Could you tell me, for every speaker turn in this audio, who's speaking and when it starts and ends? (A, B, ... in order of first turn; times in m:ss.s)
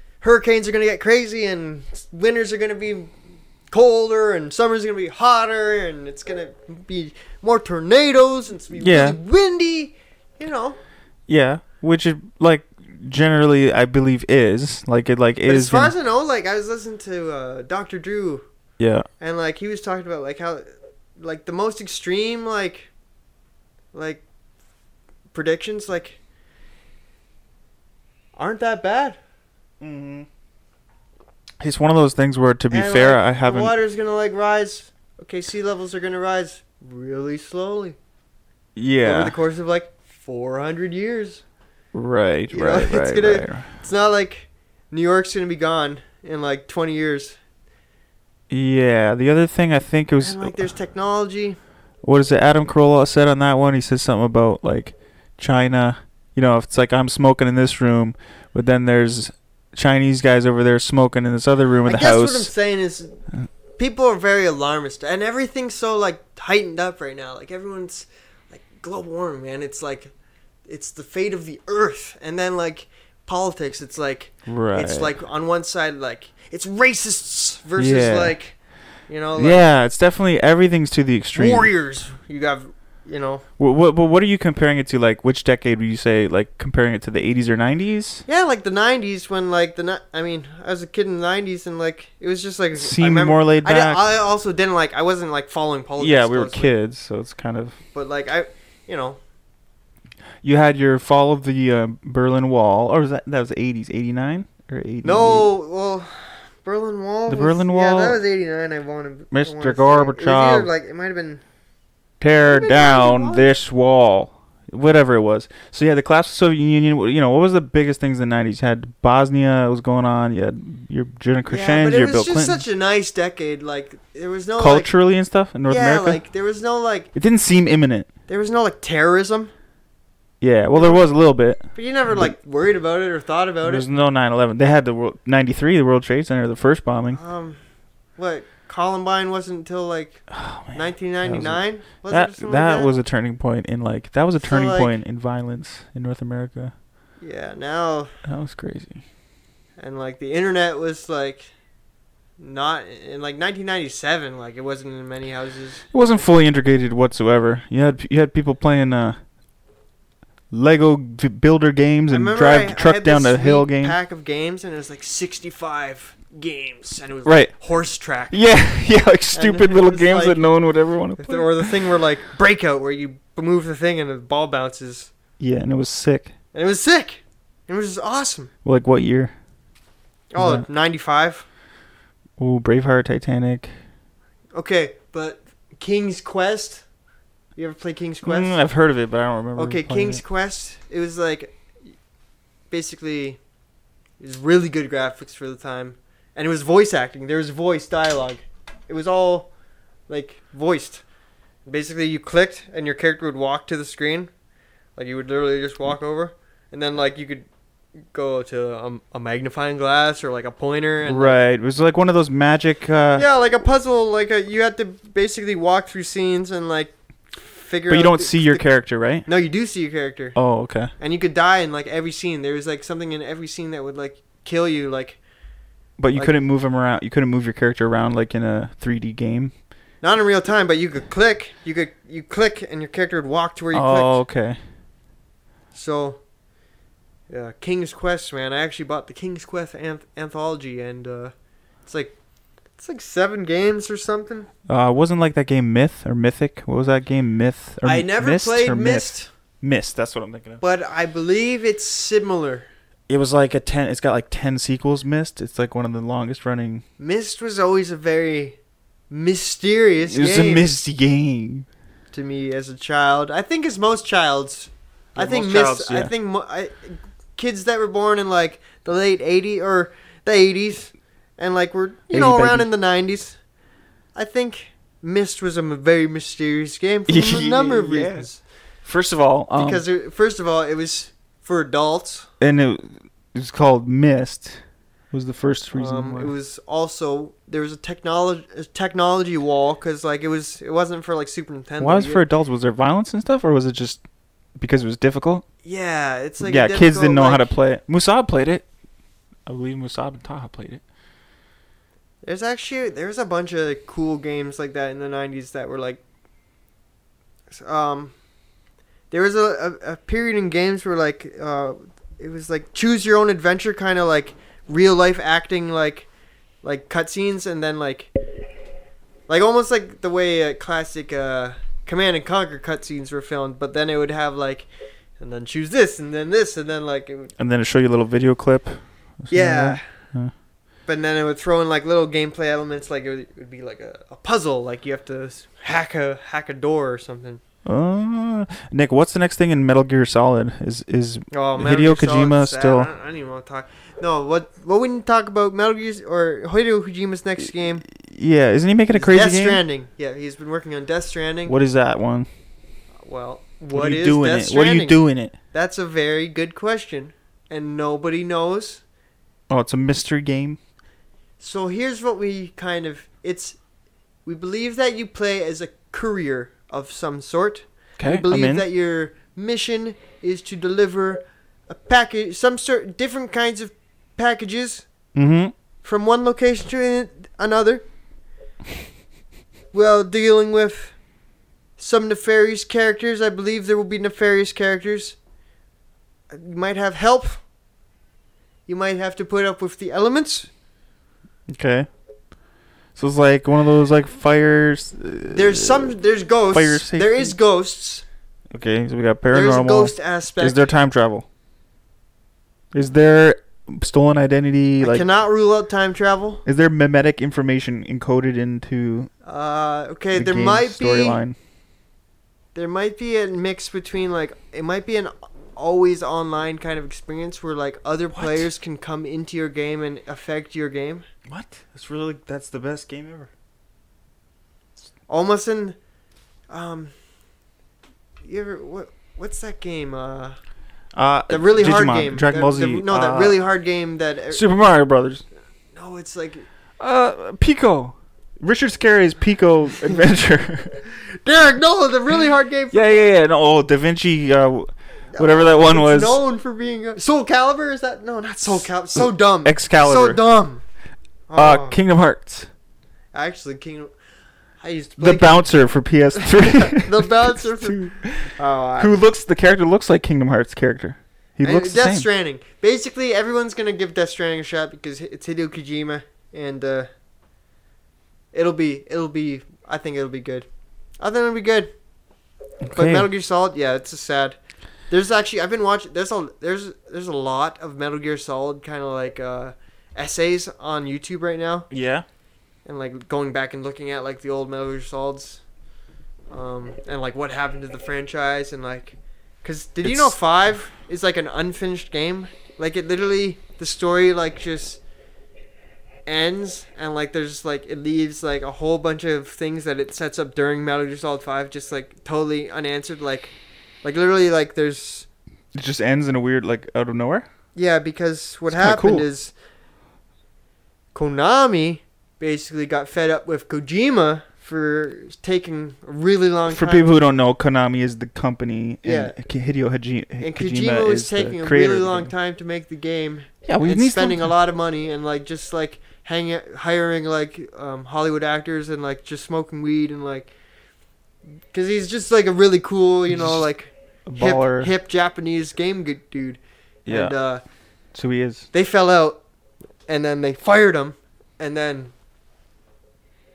0:00.2-0:03.1 A
0:03.7-0:10.8 A
0:08.8-0:09.2 B
0:11.3-0:15.9 B
0:15.5-0:18.5 A
0:18.8-0:19.1 B
0:19.2-0:20.7 A
0:21.2-0:22.9 A
0:23.9-0:24.2 A
0:25.3-0:26.2 A
0:28.4-0:29.2 A
0:29.8-0:30.3 B
0:31.6-0:33.7 B
0:32.7-0:38.0 A
0:38.8-0:39.4 B
0:39.0-0:41.4 A
0:41.9-0:43.7 B
0:42.5-0:47.4 A
0:48.5-0:50.6 B
0:50.2-0:51.6 A
0:52.0-1:02.5 B
1:01.8-1:03.2 A
1:03.8-1:10.1 A
1:10.7-1:18.6 A
1:14.5-1:15.1 B
1:17.8-1:18.4 B
1:19.1-1:19.6 A
1:19.4-1:21.7 B
1:21.4-1:23.4 A
1:23.6-1:28.2 B
1:28.3-1:36.7 A
1:32.7-1:34.0 B
1:36.0-1:37.8 B
1:37.9-1:39.2 A
1:40.4-1:45.5 B
1:45.0-1:51.4 A
1:47.3-1:48.2 B
1:49.3-1:50.7 B
1:52.2-2:02.6 B
1:52.4-1:53.5 A
2:01.5-2:04.9 A
2:04.6-2:06.2 B
2:05.7-2:07.1 A
2:07.1-2:08.1 B
2:08.3-2:09.5 A
2:10.4-2:12.4 B
2:10.7-2:11.1 A
2:11.7-2:13.8 A
2:13.6-2:17.2 B
2:17.1-2:17.6 A
2:18.2-2:22.9 A
2:20.3-2:26.7 B
2:24.4-2:25.0 A
2:27.2-2:28.1 A
2:28.3-2:29.0 B
2:29.8-2:31.5 A
2:32.4-2:35.9 A
2:35.9-2:39.2 B
2:40.5-2:44.0 B
2:42.1-2:48.4 A
2:47.2-2:47.5 B
2:48.3-2:51.8 B
2:49.3-2:50.4 A
2:51.2-2:55.1 A
2:55.4-2:56.3 B
2:56.5-2:58.5 A
2:58.6-2:59.3 B
3:00.3-3:01.5 A
3:00.4-3:00.7 B
3:02.4-3:03.7 B
3:04.5-3:06.8 A
3:07.6-3:08.6 A
3:08.2-3:10.2 B
3:09.6-3:11.6 A
3:12.7-3:13.4 A
3:14.2-3:19.5 A
3:20.1-3:21.0 A
3:21.7-3:24.3 A
3:25.0-3:27.5 A
3:28.1-3:31.4 A
3:31.0-3:33.3 B
3:33.2-3:38.7 A
3:37.9-3:39.3 B
3:39.2-3:40.4 A
3:40.4-3:40.9 B
3:41.0-3:45.2 A
3:46.0-3:49.5 B
3:50.0-3:54.2 A
3:53.7-3:54.6 B
3:55.7-3:56.2 A
3:57.3-4:01.3 A
4:01.9-4:02.2 A
4:02.8-4:04.5 A
4:04.7-4:10.6 B
4:07.8-4:09.3 A
4:10.6-4:12.7 A
4:13.1-4:16.8 B
4:17.0-4:18.6 A
4:19.1-4:20.7 A
4:20.1-4:21.7 B
4:22.1-4:33.4 A
4:25.2-4:26.1 B
4:32.1-4:32.7 B
4:34.2-4:38.4 A
4:37.1-4:38.3 B
4:38.8-4:39.8 B
4:39.6-4:42.3 A
4:42.4-4:44.6 B
4:45.1-4:46.3 B
4:45.7-4:52.3 A
4:51.8-4:54.0 B
4:54.6-4:55.4 B
4:55.6-4:57.5 A
4:56.4-4:58.7 B
4:59.5-5:00.8 B
5:02.2-5:06.0 A
5:07.5-5:08.1 A
5:09.1-5:16.1 A
5:16.6-5:18.1 A
5:19.3-5:24.7 A
5:25.2-5:27.3 A
5:27.4-5:30.3 B
5:29.3-5:29.8 A
5:30.9-5:37.4 A
5:37.6-5:42.9 B
5:41.3-5:47.9 A
5:47.8-5:49.6 B
5:48.9-5:51.6 A
5:51.5-5:52.3 B
5:53.0-5:55.0 A
5:53.7-5:55.4 B
5:55.5-5:58.8 A
5:59.5-6:00.6 B
6:01.4-6:03.6 A
6:04.3-6:14.9 A
6:08.0-6:08.7 B
6:15.2-6:15.5 B
6:15.8-6:17.8 A
6:19.7-6:21.0 A
6:21.8-6:25.2 A
6:26.3-6:27.4 A
6:28.7-6:30.5 A
6:31.5-6:31.9 B
6:33.0-6:36.0 B
6:35.3-6:38.0 A
6:36.5-6:37.4 B
6:38.5-6:41.3 B
6:39.3-6:40.7 A
6:42.7-6:45.1 B
6:44.8-6:46.4 A
6:46.4-6:49.1 B
6:49.2-6:51.2 A
6:50.1-6:51.4 B
6:52.6-7:01.1 A
6:58.2-6:58.5 B
7:01.3-7:03.3 B
7:05.1-7:05.8 A
7:06.5-7:06.9 A
7:08.2-7:10.4 A
7:10.9-7:13.4 B
7:11.3-7:14.4 A
7:14.3-7:15.2 B
7:15.7-7:16.4 A
7:16.8-7:20.8 B
7:21.2-7:23.1 A
7:22.7-7:26.2 B
7:25.1-7:30.6 A
7:28.6-7:30.2 B
7:31.3-7:31.8 A
7:31.4-7:32.5 B
7:33.1-7:33.9 A
7:34.6-7:39.0 A
7:35.0-7:42.1 B
7:41.4-7:46.9 A
7:48.3-7:50.5 A
7:51.0-7:51.7 A
7:52.6-7:53.1 B
7:52.7-7:54.4 A
7:54.9-8:01.7 A
8:01.7-8:02.0 B
8:02.7-8:05.4 A
8:06.3-8:14.8 A
8:09.8-8:10.1 B
8:16.1-8:25.1 A
8:25.5-8:27.3 B
8:27.6-8:29.3 A
8:28.5-8:29.1 B
8:30.9-8:36.9 A
8:36.5-8:42.1 B
8:38.8-8:39.2 A
8:40.2-8:50.3 A
8:43.5-8:44.3 B
8:51.5-8:57.4 A
8:53.1-8:53.4 B
8:54.1-8:54.7 B
8:56.9-8:57.1 B
8:57.9-8:58.5 B
8:58.5-8:59.2 A
8:59.9-9:01.9 A